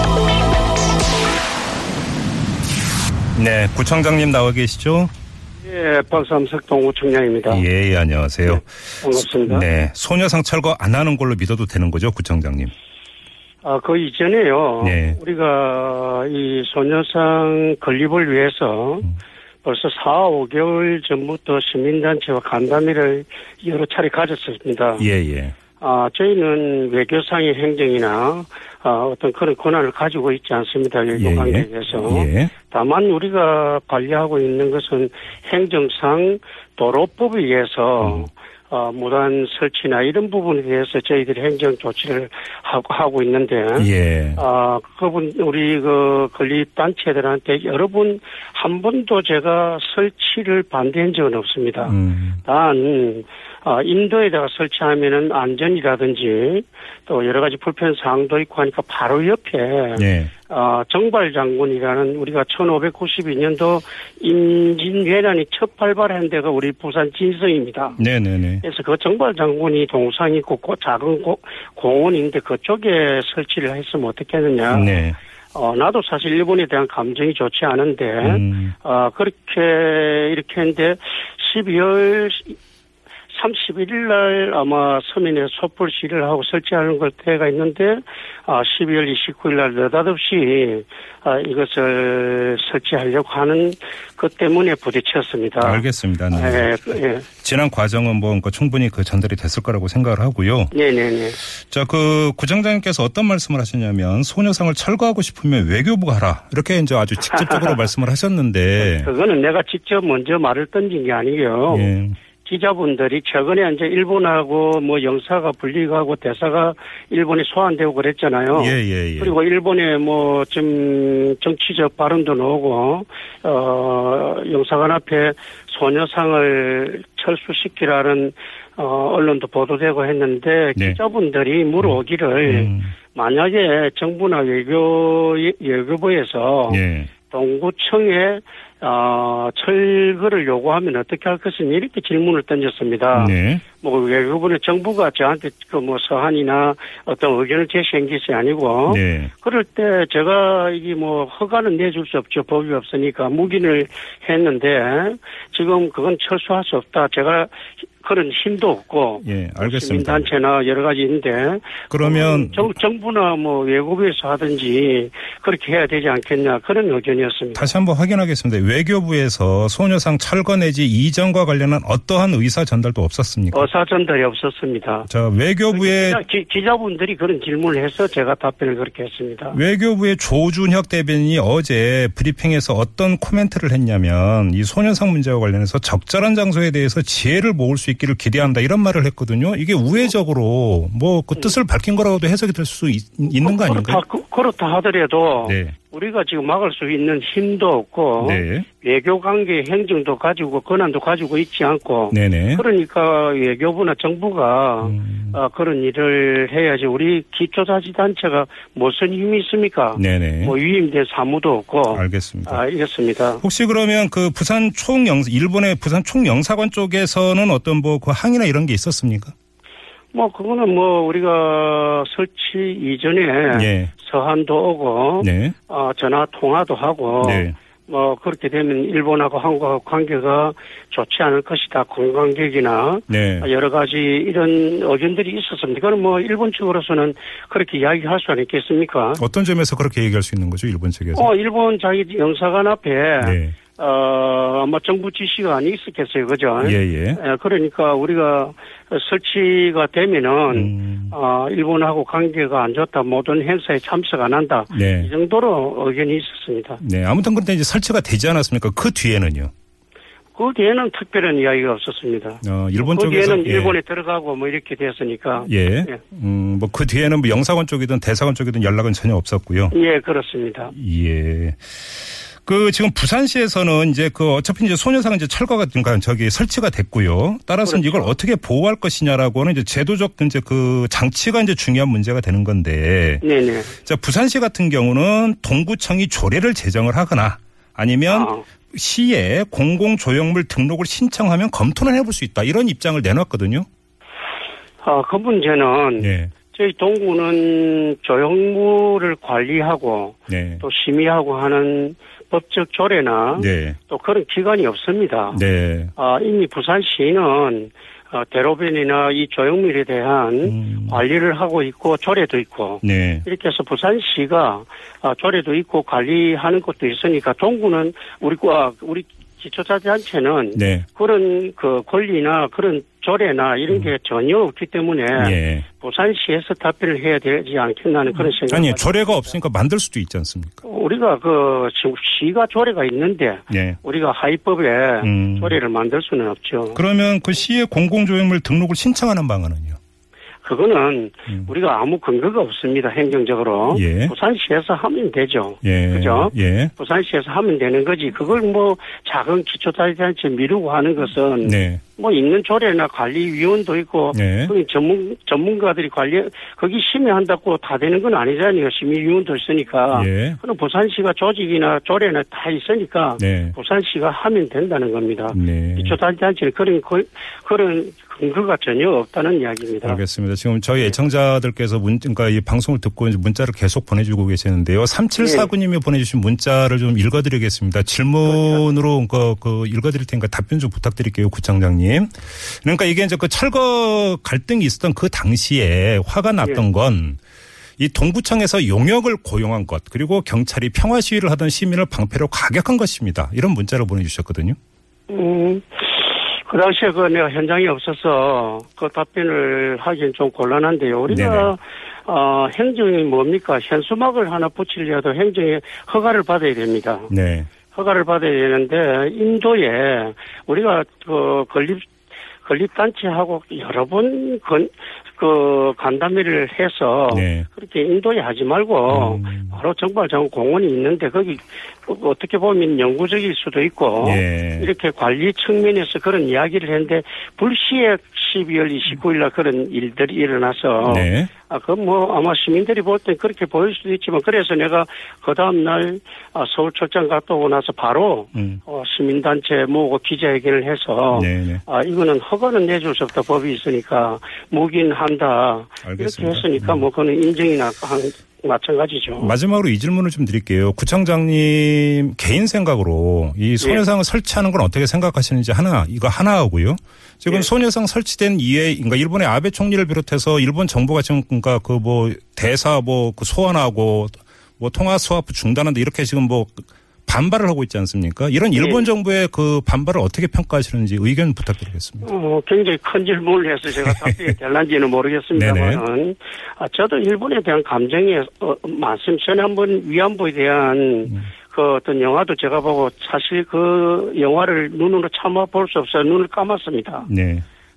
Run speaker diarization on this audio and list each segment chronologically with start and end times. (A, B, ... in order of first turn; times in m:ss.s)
0:03.3-0:05.1 A
0:05.6-0:07.6 B
0:07.5-0:12.7 A
0:08.4-0:09.6 B
0:13.6-0:19.1 B
0:14.8-0:15.2 A
0:19.6-0:25.0 B
0:25.0-0:25.5 A
0:25.8-1:08.0 B
0:31.1-0:32.5 A
0:38.0-0:38.3 A
0:43.8-0:44.4 A
0:51.9-0:52.4 A
1:00.0-1:00.3 A
1:08.0-1:08.6 A
1:08.6-1:15.0 B
1:14.7-1:15.2 A
1:15.5-1:22.6 B
1:18.2-1:18.7 A
1:23.3-1:37.3 B
1:35.6-1:36.7 A
1:37.4-1:40.7 A
1:40.7-1:41.4 B
1:41.7-1:49.1 A
1:47.3-1:47.8 B
1:48.8-1:51.9 B
1:51.7-1:52.1 A
1:52.4-2:47.7 B
1:58.5-1:59.4 A
2:12.5-2:12.9 A
2:16.7-2:17.1 A
2:23.1-2:23.6 A
2:28.9-2:29.3 A
2:39.2-2:40.3 A
2:41.9-2:42.7 A
2:47.5-2:53.7 A
2:53.5-2:55.1 B
2:55.0-2:56.2 A
2:55.7-2:59.6 B
2:59.5-3:14.0 A
3:13.4-3:33.4 B
3:15.4-3:15.7 A
3:18.2-3:18.6 A
3:22.1-3:22.6 A
3:24.8-3:25.4 A
3:30.0-3:30.5 A
3:31.9-3:32.6 A
3:33.4-3:39.3 A
3:40.1-3:59.2 B
3:43.5-3:43.9 A
3:45.2-3:45.5 A
3:47.2-3:47.5 A
3:53.1-3:53.5 A
3:59.2-4:01.3 A
4:01.1-4:16.8 B
4:03.2-4:03.5 A
4:06.6-4:07.2 A
4:10.5-4:11.1 A
4:14.7-4:15.1 A
4:16.8-4:19.5 A
4:20.3-4:26.0 B
4:22.4-4:23.8 A
4:25.4-4:29.7 A
4:29.7-4:30.7 B
4:30.7-4:31.6 A
4:32.4-4:43.2 A
4:37.6-4:38.1 B
4:43.2-4:43.7 B
4:43.8-4:53.7 A
4:48.1-4:48.4 B
4:54.8-5:05.4 B
4:56.0-4:56.3 A
5:00.3-5:00.6 A
5:03.4-5:03.8 A
5:05.3-5:05.9 A
5:06.0-5:29.3 B
5:10.4-5:11.0 A
5:12.8-5:13.2 A
5:20.5-5:20.8 A
5:25.1-5:25.6 A
5:28.5-5:30.6 A
5:30.6-5:36.8 B
5:33.5-5:33.8 A
5:35.0-5:35.6 A
5:36.7-5:39.8 A
5:40.4-6:10.0 B
5:43.7-5:44.1 A
5:45.6-5:46.7 A
5:51.4-5:51.8 A
5:54.1-5:54.5 A
5:59.9-6:00.4 A
6:03.2-6:03.5 A
6:05.3-6:06.0 A
6:09.8-6:27.2 A
6:15.2-6:15.5 B
6:18.2-6:18.6 B
6:27.8-6:34.6 A
6:35.1-6:47.1 B
6:41.1-6:41.5 A
6:47.1-6:47.5 A
6:47.7-6:51.8 B
6:52.4-7:29.3 B
6:57.1-6:57.4 A
6:58.9-6:59.6 A
7:04.0-7:04.7 A
7:10.8-7:11.3 A
7:18.3-7:18.6 A
7:21.1-7:21.6 A
7:25.8-7:26.8 A
7:29.2-7:52.1 A
7:48.5-7:48.8 B
7:52.0-8:07.1 B
7:53.8-7:54.3 A
7:55.3-7:55.8 A
8:07.0-8:07.4 A